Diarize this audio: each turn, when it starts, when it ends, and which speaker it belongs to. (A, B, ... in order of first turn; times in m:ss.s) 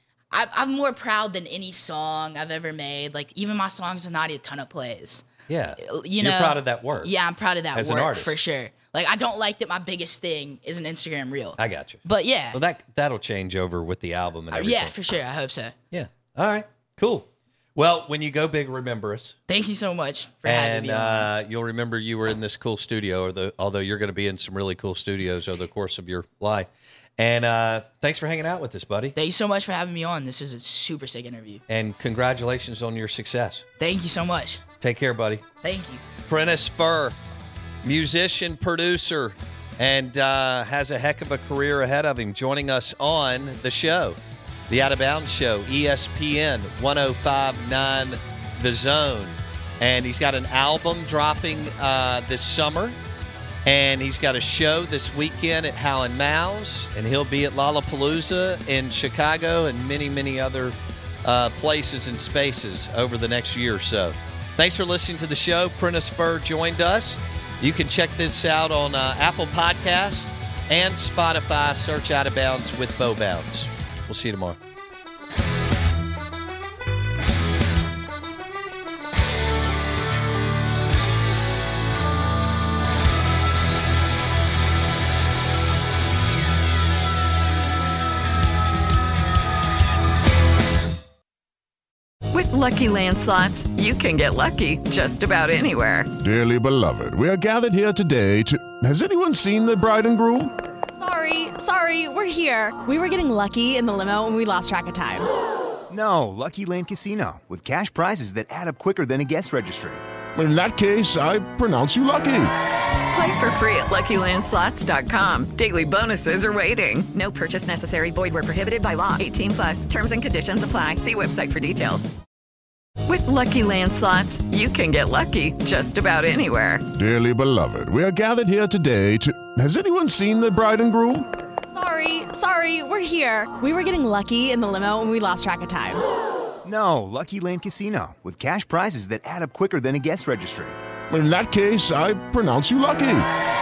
0:00.3-0:05.2 A
0:05.5-0:07.1 B
0:05.8-0:12.6 A
0:07.7-0:08.4 B
0:11.6-0:14.9 B
0:14.5-0:15.7 A
0:15.9-0:19.4 B
0:19.5-0:21.3 A
0:20.4-0:29.1 B
0:29.1-0:31.6 A
0:31.7-0:33.6 B
0:33.8-0:34.6 A
0:34.8-0:35.4 B
0:35.6-0:36.0 A
0:36.3-0:37.2 B
0:37.8-0:44.2 B
0:44.7-0:53.0 B
0:53.6-1:14.6 B
1:32.3-1:36.1 C
1:36.2-1:40.5 D
1:41.0-1:45.3 E
1:45.9-1:50.0 F
1:50.3-1:52.5 D
1:53.1-2:02.1 C
2:03.0-2:06.8 C
2:06.9-2:11.2 D
2:11.7-2:16.0 E
2:16.6-2:20.8 F
2:21.1-2:23.3 D